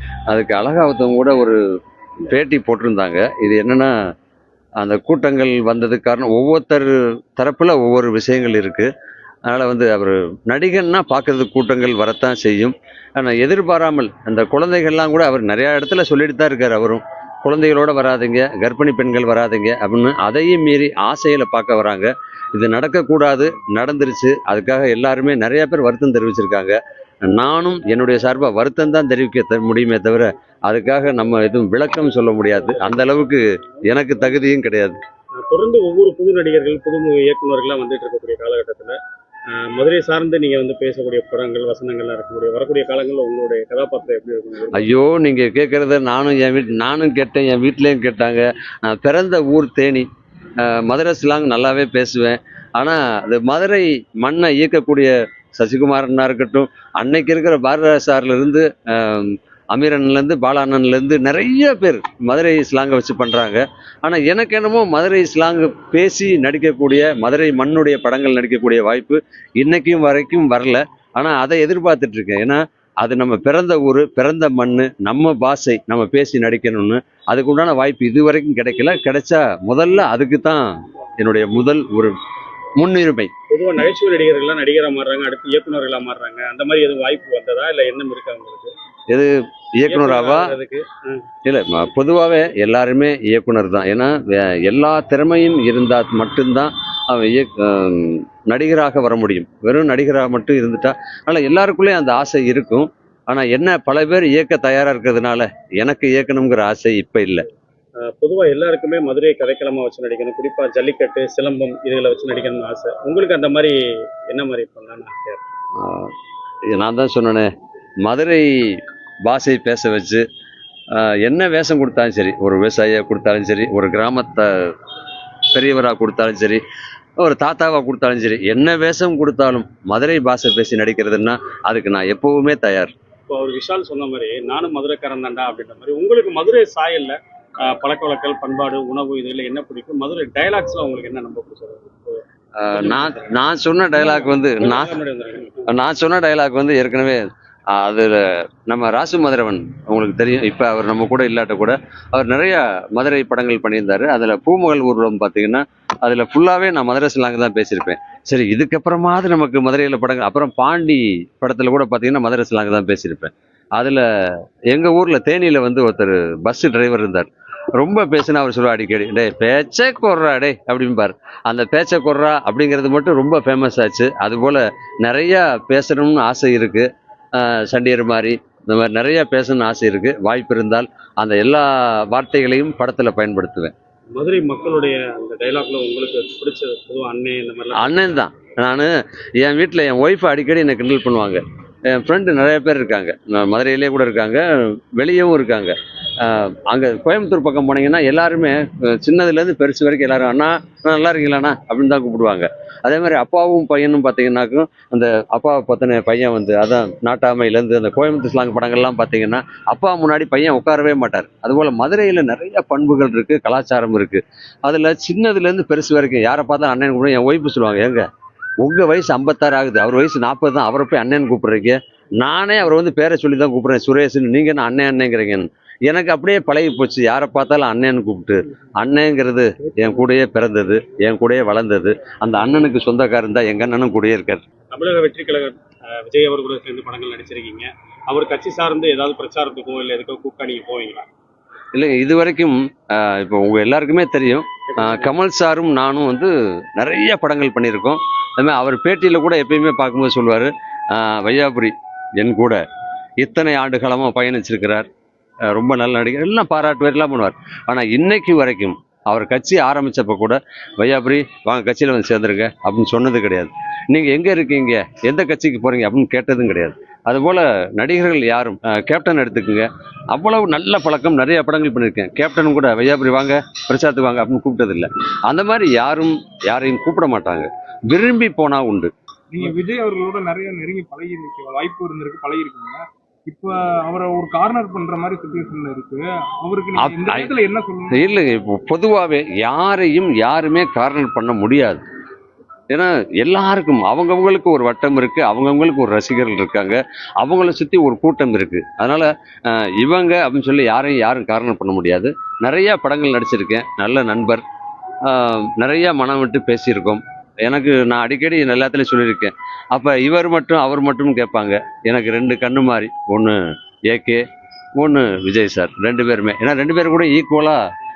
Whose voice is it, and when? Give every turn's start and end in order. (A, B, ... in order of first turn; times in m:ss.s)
0:00.3-0:01.6 A
0:02.3-0:03.9 A
0:04.8-0:08.9 A
0:09.5-0:35.0 A
0:35.4-0:39.0 B
0:39.5-0:44.9 B
0:44.7-0:50.1 A
0:50.6-1:20.7 A
1:21.2-1:22.2 A
1:22.8-1:23.3 A
1:23.5-1:28.7 B
1:29.1-1:30.6 A
1:29.9-1:31.2 B
1:31.5-1:47.4 A
1:48.0-1:55.4 B
1:55.8-1:56.1 A
1:56.7-1:57.5 A
1:58.0-2:00.2 A
2:00.9-2:04.7 A
2:05.5-2:06.6 A
2:07.2-2:12.9 A
2:13.3-2:22.2 B
2:22.6-2:25.0 A
2:22.7-2:23.3 B
2:24.0-2:25.7 B
2:25.7-3:03.7 A
3:04.2-3:08.2 B
3:07.8-3:14.4 A
3:15.0-3:38.0 A
3:38.6-3:54.4 A
3:54.7-4:01.1 B
4:01.8-4:12.6 A
4:04.7-4:05.1 B
4:13.2-4:14.9 A
4:15.5-4:38.9 A
4:39.3-4:48.0 C
4:46.8-4:47.3 A
4:47.9-4:51.8 A
4:52.7-5:04.4 A
5:05.0-5:13.4 A
5:13.9-5:14.2 A
5:14.8-5:17.6 A